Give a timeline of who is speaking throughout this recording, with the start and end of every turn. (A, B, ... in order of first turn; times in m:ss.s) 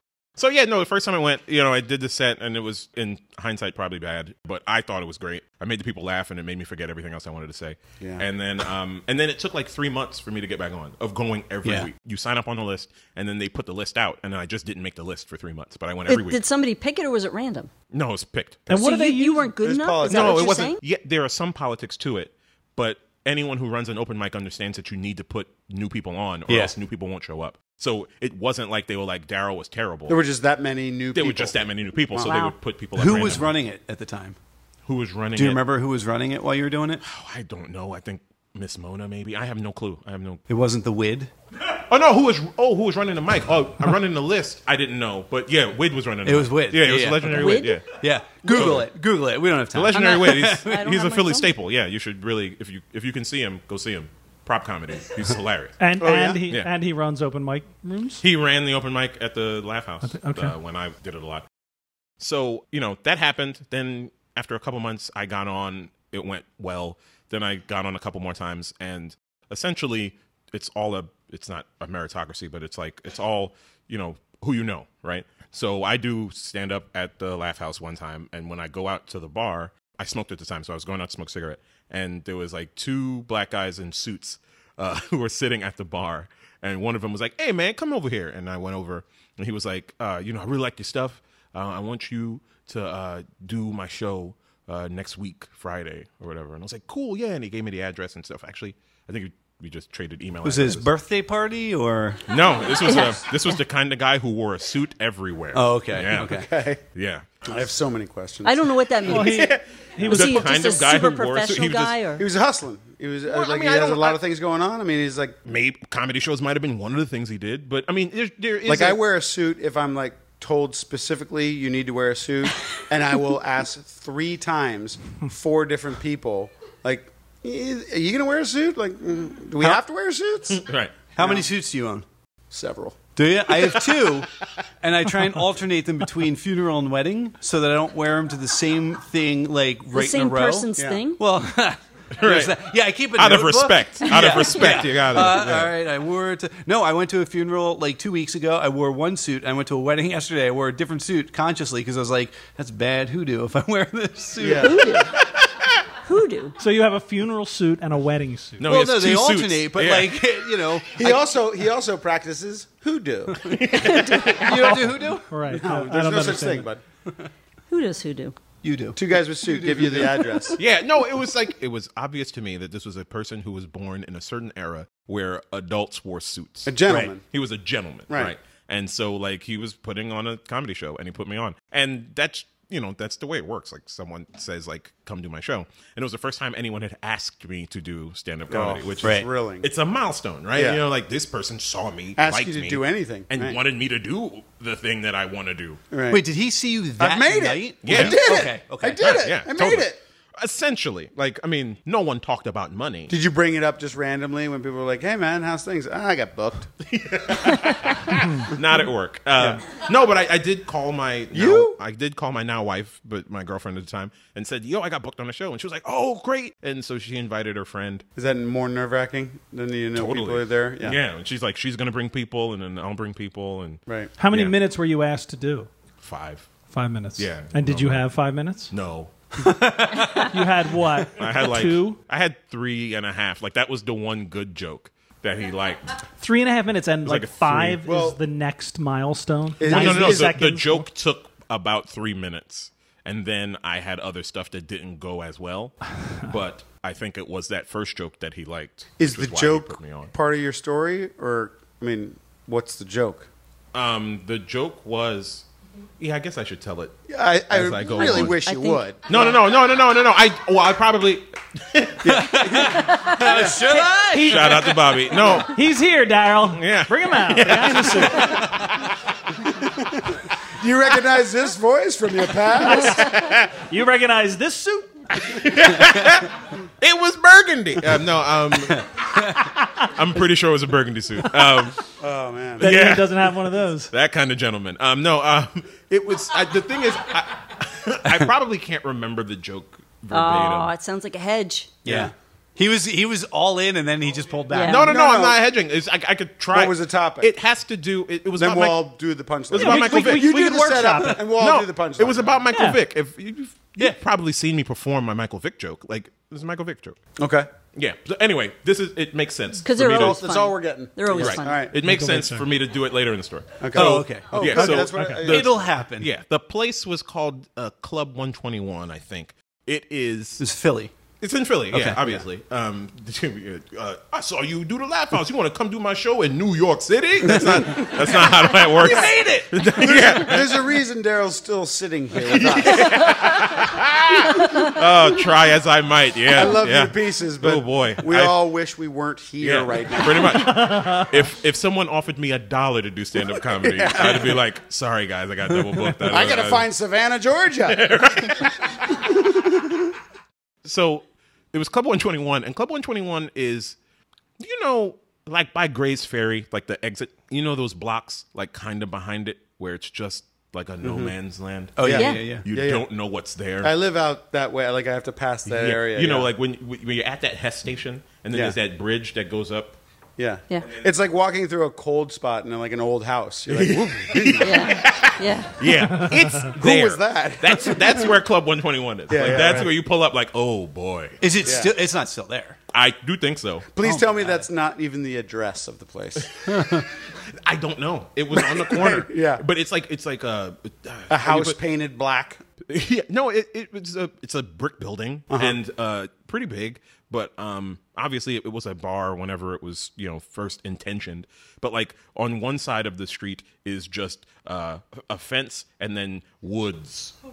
0:00.4-0:16.4 A
0:08.0-0:08.2 B
0:16.1-0:17.7 C
0:17.9-0:18.8 A
0:18.7-0:19.5 D
0:18.7-0:20.8 C
0:19.6-0:20.6 B
0:20.0-0:30.2 A
0:26.5-0:26.7 E
0:30.1-0:31.5 B
0:31.1-0:33.5 A
0:32.2-0:32.5 C
0:33.0-0:34.4 E
0:34.8-0:35.6 A
0:35.3-0:37.0 E
0:37.0-0:40.4 A
0:40.5-0:41.3 E
0:41.7-0:47.8 A
0:46.2-0:50.8 E
0:47.3-0:47.8 C
0:48.4-0:48.9 A
0:49.7-0:55.8 A
0:49.9-0:51.5 C
0:55.8-0:58.2 D
0:56.0-0:56.4 B
0:58.2-1:01.4 A
1:00.0-1:00.5 D
1:02.2-1:40.9 A
1:40.4-1:42.2 E
1:42.3-1:47.4 A
1:45.5-1:46.5 E
1:46.2-1:46.8 B
1:47.4-1:48.7 B
1:48.4-1:52.2 C
1:49.1-1:50.5 D
1:49.1-1:52.0 A
1:52.2-1:55.4 B
1:53.3-1:54.2 A
1:55.4-1:59.0 A
1:58.6-2:10.6 B
2:10.5-2:10.9 A
2:11.1-2:12.0 E
2:11.2-2:11.4 B
2:12.5-2:13.0 B
2:13.2-2:14.3 E
2:14.8-2:35.0 E
2:19.9-2:21.2 C
2:20.8-2:21.0 B
2:22.1-2:25.7 A
2:24.2-2:24.8 C
2:34.4-2:34.8 B
2:34.6-2:35.2 C
2:35.2-2:35.7 A
2:36.0-2:36.5 C
2:36.6-2:38.7 D
2:38.6-2:40.5 A
2:38.6-2:41.2 E
2:41.0-2:43.6 B
2:43.4-2:44.8 A
2:43.7-2:44.7 C
2:44.3-2:45.2 E
2:44.6-2:46.7 D
2:45.5-2:46.8 B
2:47.7-2:48.4 C
2:48.6-2:50.5 E
2:48.9-2:50.6 B
2:50.6-3:15.8 A
2:56.6-2:57.2 B
2:58.1-2:58.3 B
3:08.5-3:09.7 B
3:09.0-3:09.3 E
3:10.5-3:10.8 B
3:12.2-3:13.6 B
3:15.9-3:16.2 B
3:16.1-3:19.1 E
3:17.0-3:20.0 B
3:17.8-3:18.4 A
3:19.0-3:23.1 A
3:23.1-3:26.7 B
3:26.8-3:38.0 A
3:28.1-3:28.5 D
3:29.4-3:29.6 B
3:31.3-3:31.8 B
3:38.2-3:41.0 B
3:39.9-3:44.5 A
3:44.2-3:45.7 D
3:46.0-3:46.5 A
3:46.7-3:48.7 D
3:47.2-3:48.1 A
3:48.7-3:49.1 A
3:49.4-3:50.3 E
3:50.2-3:52.0 D
3:51.2-3:56.0 A
3:56.2-4:00.8 D
3:57.0-3:57.8 A
3:57.8-3:58.2 B
3:59.6-4:00.3 B
3:59.6-4:10.1 A
4:09.0-4:13.3 B
4:13.7-4:15.4 A
4:16.0-4:18.4 A
4:17.1-4:19.4 B
4:18.0-4:18.8 C
4:19.1-4:22.2 A
4:22.0-4:23.6 B
4:22.0-4:24.7 E
4:22.6-4:23.7 C
4:23.8-4:28.4 D
4:24.1-4:25.5 A
4:26.5-4:28.6 A
4:29.5-4:33.1 B
4:33.0-4:33.5 A
4:33.5-4:35.3 D
4:35.2-4:41.8 A
4:38.8-4:39.4 E
4:42.0-4:42.7 B
4:42.6-4:43.9 D
4:42.6-4:50.7 A
4:50.1-4:51.8 C
4:51.8-4:52.1 B
4:51.8-4:54.9 E
4:54.5-4:54.9 C
4:54.6-4:58.9 A
4:54.8-4:55.4 B
4:56.5-4:57.3 B
4:58.3-5:02.4 B
4:59.5-5:00.4 A
4:59.6-5:01.2 D
5:01.2-5:07.0 A
5:02.5-5:02.8 D
5:07.2-5:07.5 B
5:07.7-5:10.2 A
5:09.6-5:11.7 C
5:09.8-5:11.7 B
5:11.1-5:20.4 A
5:11.8-5:12.5 D
5:13.6-5:15.6 B
5:13.7-5:16.1 E
5:14.9-5:15.2 D
5:20.4-5:20.9 E
5:21.2-5:30.6 A
5:21.7-5:22.2 E
5:28.5-5:29.6 E
5:28.9-5:29.1 B
5:29.8-5:33.0 B
5:32.2-5:38.4 A
5:36.3-5:40.7 B
5:39.4-5:46.7 A
5:43.6-5:44.4 B
5:46.0-5:48.0 B
5:47.7-5:49.0 A
5:49.0-5:49.8 B
5:50.6-5:53.8 A
5:54.4-6:03.7 A
6:00.8-6:01.1 B
6:01.8-6:02.4 E
6:01.8-6:02.8 B
6:01.9-6:02.3 C
6:03.6-6:06.3 B
6:05.4-6:09.8 A
6:10.2-6:14.7 B
6:13.5-6:21.2 A
6:14.4-6:15.6 C
6:15.8-6:16.4 D
6:16.5-6:18.2 B
6:19.1-6:19.7 B
6:21.2-6:22.6 E
6:21.4-6:21.7 B
6:22.7-6:23.7 A
6:23.7-6:26.3 B
6:23.8-6:24.4 E
6:26.5-6:26.8 E
6:27.3-6:31.6 A
6:28.3-6:29.4 B
6:31.1-6:32.4 B
6:32.7-6:47.1 A
6:35.3-6:35.6 B